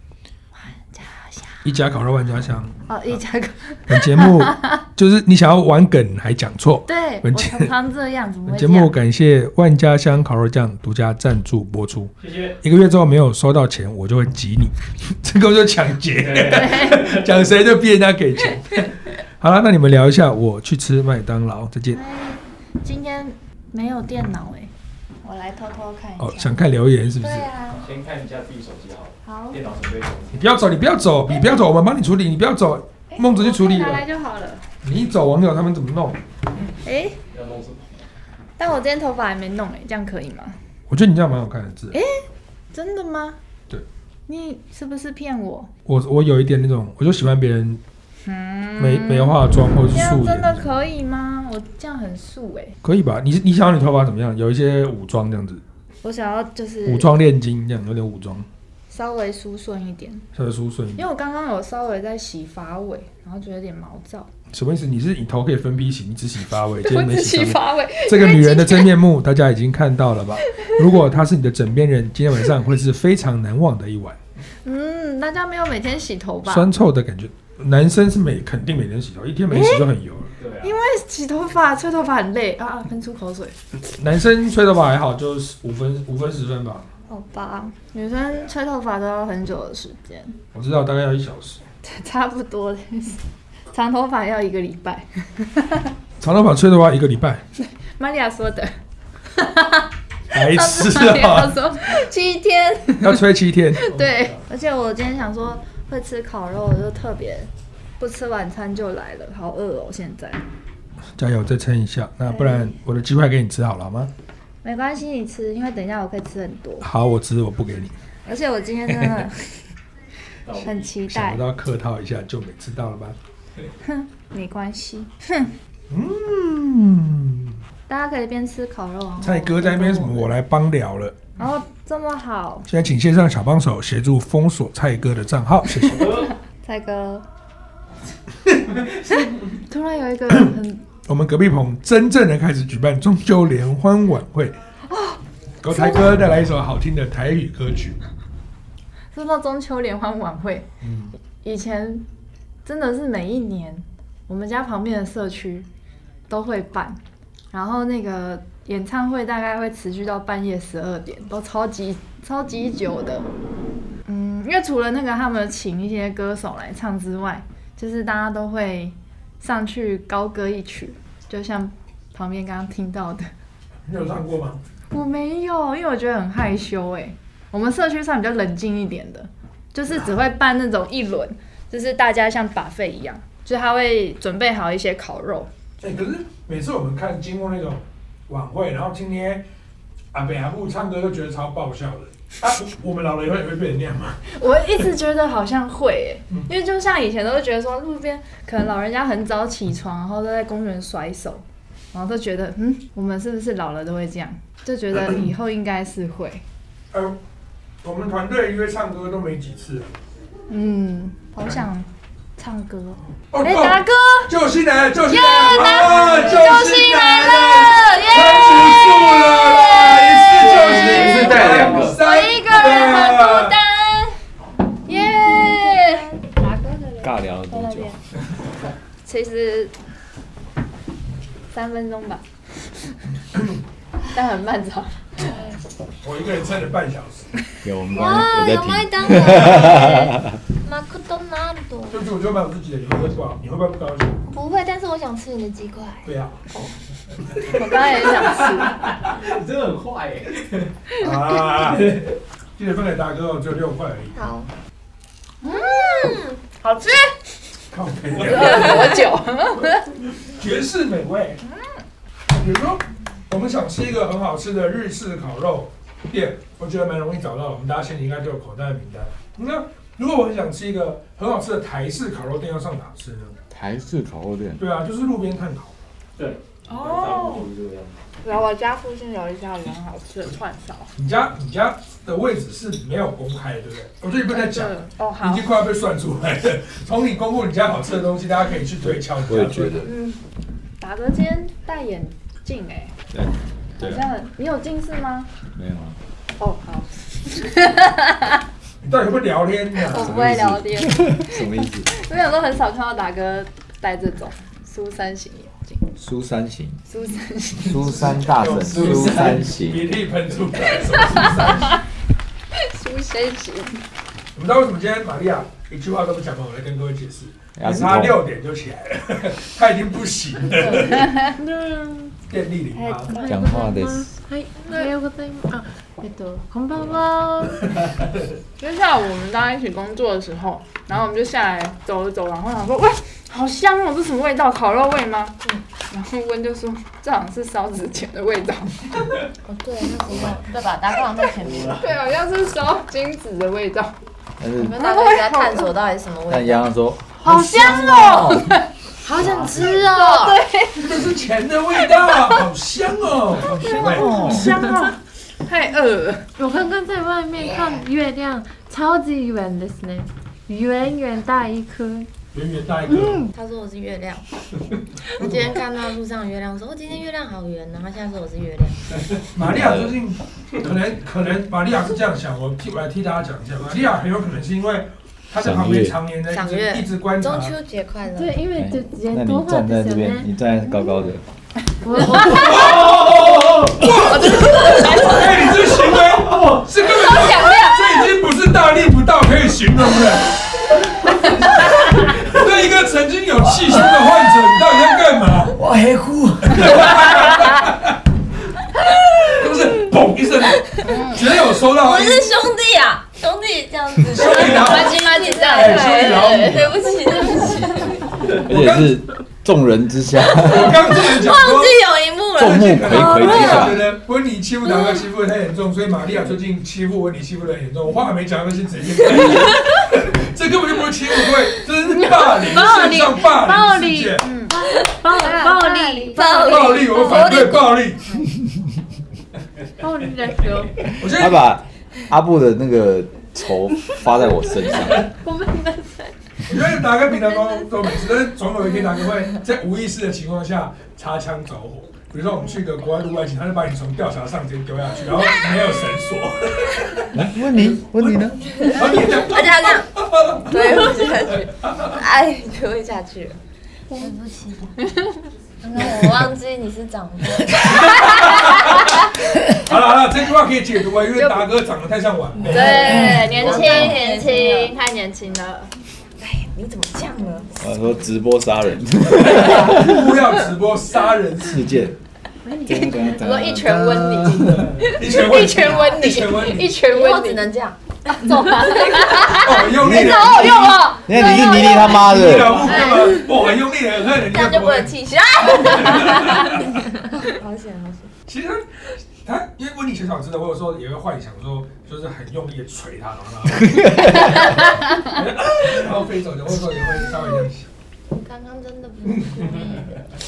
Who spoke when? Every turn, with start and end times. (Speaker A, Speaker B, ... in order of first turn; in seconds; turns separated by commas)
Speaker A: 0.5-1.6, Speaker B: 1.6-2.8, Speaker A: 2.9-4.8, Speaker B: 3.9-7.7, Speaker A: 6.9-8.9, Speaker B: 8.4-22.0, Speaker C: 12.2-12.6, Speaker C: 16.2-17.3, Speaker A: 16.5-17.1, Speaker A: 21.9-24.7, Speaker A: 25.2-26.6, Speaker B: 26.2-27.5, Speaker D: 27.2-27.8, Speaker C: 27.7-30.5, Speaker A: 29.2-29.6, Speaker B: 30.3-34.0, Speaker A: 33.1-34.6, Speaker B: 34.8-36.2, Speaker A: 36.8-37.2, Speaker C: 37.3-37.9, Speaker A: 38.6-40.6, Speaker B: 40.9-42.0, Speaker A: 41.9-43.4, Speaker A: 44.3-45.7, Speaker B: 45.9-47.8, Speaker A: 48.2-52.8, Speaker B: 48.8-50.7, Speaker B: 52.8-55.6, Speaker A: 56.0-57.1, Speaker B: 56.8-58.5, Speaker A: 58.9-60.2, Speaker B: 60.3-61.0, Speaker A: 61.0-64.3, Speaker B: 64.5-74.2, Speaker A: 66.8-69.0, Speaker A: 74.6-76.7, Speaker B: 76.4-80.3, Speaker A: 79.5-79.9, Speaker C: 80.4-80.8, Speaker A: 80.6-83.5, Speaker B: 83.9-86.9, Speaker A: 87.1-90.3, Speaker B: 90.5-91.6, Speaker A: 91.8-95.9, Speaker B: 96.2-97.4, Speaker A: 97.6-98.7, Speaker A: 99.3-110.4, Speaker B: 100.3-101.5, Speaker B: 103.0-104.0, Speaker B: 111.2-114.1, Speaker A: 112.3-112.7, Speaker A: 114.6-116.9, Speaker B: 116.8-117.9, Speaker A: 118.2-119.6, Speaker B: 118.9-119.2, Speaker C: 120.5-120.8, Speaker A: 120.6-121.4, Speaker B: 121.1-123.2, Speaker A: 123.8-125.5, Speaker B: 125.9-127.6, Speaker A: 127.9-130.3, Speaker B: 129.2-131.2, Speaker A: 131.4-132.7, Speaker B: 132.7-136.2, Speaker C: 135.9-136.3, Speaker A: 136.6-137.2, Speaker A: 139.4-140.8, Speaker B: 141.1-144.6, Speaker A: 144.9-146.1, Speaker B: 145.6-148.0, Speaker A: 149.1-150.7, Speaker B: 150.8-151.1, Speaker A: 151.4-152.1, Speaker A: 152.6-155.7, Speaker A: 156.3-157.0, Speaker A: 157.5-163.3, Speaker A: 164.1-173.3, Speaker B: 173.8-174.6, Speaker A: 174.9-185.5, Speaker B: 185.8-189.4, Speaker B: 190.1-194.2, Speaker A: 194.3-206.4, Speaker B: 206.9-207.2, Speaker B: 207.8-209.9, Speaker A: 210.5-214.3, Speaker B: 213.3-223.6, Speaker A: 215.1-223.6, Speaker D: 215.9-219.1, Speaker E: 220.5-222.0, Speaker C: 220.6-222.0, Speaker D: 222.0-224.1, Speaker A: 224.8-227.9, Speaker D: 225.4-226.0, Speaker E: 227.0-227.9, Speaker A: 229.0-229.7, Speaker A: 231.5-232.2, Speaker A: 234.1-235.3, Speaker B: 236.0-237.3, Speaker E: 237.6-240.4, Speaker D: 237.9-242.0, Speaker B: 241.9-244.2, Speaker D: 244.3-246.7, Speaker B: 246.0-246.4, Speaker A: 247.4-248.8, Speaker C: 248.2-250.7, Speaker B: 251.0-254.2, Speaker C: 251.6-252.1, Speaker D: 254.2-254.5, Speaker A: 255.4-255.9, Speaker D: 255.4-256.4, Speaker A: 256.6-257.2, Speaker B: 257.7-259.1, Speaker A: 258.1-259.9, Speaker B: 260.2-261.4, Speaker A: 261.4-261.7, Speaker B: 262.3-273.4, Speaker E: 273.5-274.6, Speaker B: 274.6-275.7, Speaker C: 276.2-277.9, Speaker A: 276.7-277.5, Speaker A: 278.2-280.9, Speaker B: 280.9-289.9, Speaker A: 284.3-285.5, Speaker E: 289.2-289.9, Speaker A: 289.8-290.2, Speaker A: 290.8-292.9, Speaker E: 293.1-294.1, Speaker A: 293.8-295.3, Speaker E: 295.5-296.0, Speaker A: 296.4-298.4, Speaker B: 298.8-300.2, Speaker A: 299.8-305.9, Speaker E: 299.9-301.9, Speaker E: 305.9-306.8, Speaker A: 306.9-308.1, Speaker E: 307.5-309.9, Speaker B: 307.7-311.8, Speaker A: 312.5-313.8, Speaker B: 314.3-321.1, Speaker E: 317.6-318.2, Speaker A: 320.6-321.3, Speaker F: 321.1-322.2, Speaker B: 322.3-323.1, Speaker A: 322.7-323.4, Speaker F: 323.1-327.7, Speaker E: 323.3-324.1, Speaker A: 328.6-335.4, Speaker A: 335.9-339.1, Speaker D: 339.4-341.9, Speaker C: 340.1-340.4, Speaker C: 341.5-341.8, Speaker A: 341.7-343.9, Speaker E: 344.4-344.8, Speaker D: 344.6-346.7, Speaker A: 344.8-345.7, Speaker E: 346.3-348.5, Speaker A: 347.2-348.7, Speaker D: 349.0-350.4, Speaker C: 349.2-349.5, Speaker A: 349.8-351.0, Speaker B: 350.8-354.1, Speaker A: 351.9-352.4, Speaker A: 353.4-356.3, Speaker E: 353.8-354.5, Speaker F: 354.2-354.8, Speaker F: 356.4-362.1, Speaker B: 362.3-363.3, Speaker F: 363.0-363.3, Speaker D: 363.3-364.2, Speaker D: 365.1-369.0, Speaker B: 365.2-365.5, Speaker B: 369.3-377.5, Speaker E: 369.4-370.0, Speaker E: 375.4-376.0, Speaker D: 376.3-378.4, Speaker F: 378.1-380.3, Speaker E: 378.6-381.2, Speaker F: 381.8-382.8, Speaker B: 382.2-395.6, Speaker A: 382.2-382.7, Speaker C: 382.9-383.8, Speaker A: 383.9-385.6, Speaker A: 386.8-388.1, Speaker E: 395.5-397.1, Speaker B: 396.4-398.0, Speaker B: 399.1-402.3, Speaker A: 400.8-401.3, Speaker D: 401.5-408.1, Speaker B: 404.0-406.8, Speaker A: 404.2-406.7, Speaker E: 408.2-410.9, Speaker B: 408.4-408.9, Speaker D: 410.3-413.7, Speaker B: 410.3-411.8, Speaker E: 412.4-413.8, Speaker B: 412.4-424.3, Speaker F: 422.4-427.1, Speaker A: 424.2-424.6, Speaker D: 424.7-427.9, Speaker A: 425.1-426.7, Speaker B: 426.4-428.2, Speaker F: 429.8-431.0, Speaker B: 431.0-431.5, Speaker E: 431.0-435.1, Speaker F: 435.0-436.1, Speaker B: 436.4-452.0, Speaker E: 447.1-448.6, Speaker D: 448.5-449.9, Speaker D: 450.4-453.4, Speaker F: 453.9-454.1, Speaker D: 453.9-454.8, Speaker A: 454.9-455.1, Speaker D: 455.6-458.9, Speaker B: 457.6-463.9, Speaker A: 461.1-461.5, Speaker A: 462.5-465.7, Speaker D: 462.5-464.7, Speaker E: 462.9-464.0, Speaker D: 466.2-467.6, Speaker E: 467.6-470.1, Speaker B: 469.1-471.9, Speaker E: 471.4-471.9, Speaker F: 472.5-472.9, Speaker A: 472.5-477.5, Speaker E: 472.6-474.7, Speaker B: 474.2-476.8, Speaker D: 475.6-483.3, Speaker A: 478.1-481.9, Speaker B: 479.3-484.9, Speaker E: 479.7-482.8, Speaker D: 484.2-488.1, Speaker B: 485.5-486.6, Speaker B: 488.3-497.7, Speaker E: 493.6-494.4, Speaker D: 498.1-500.0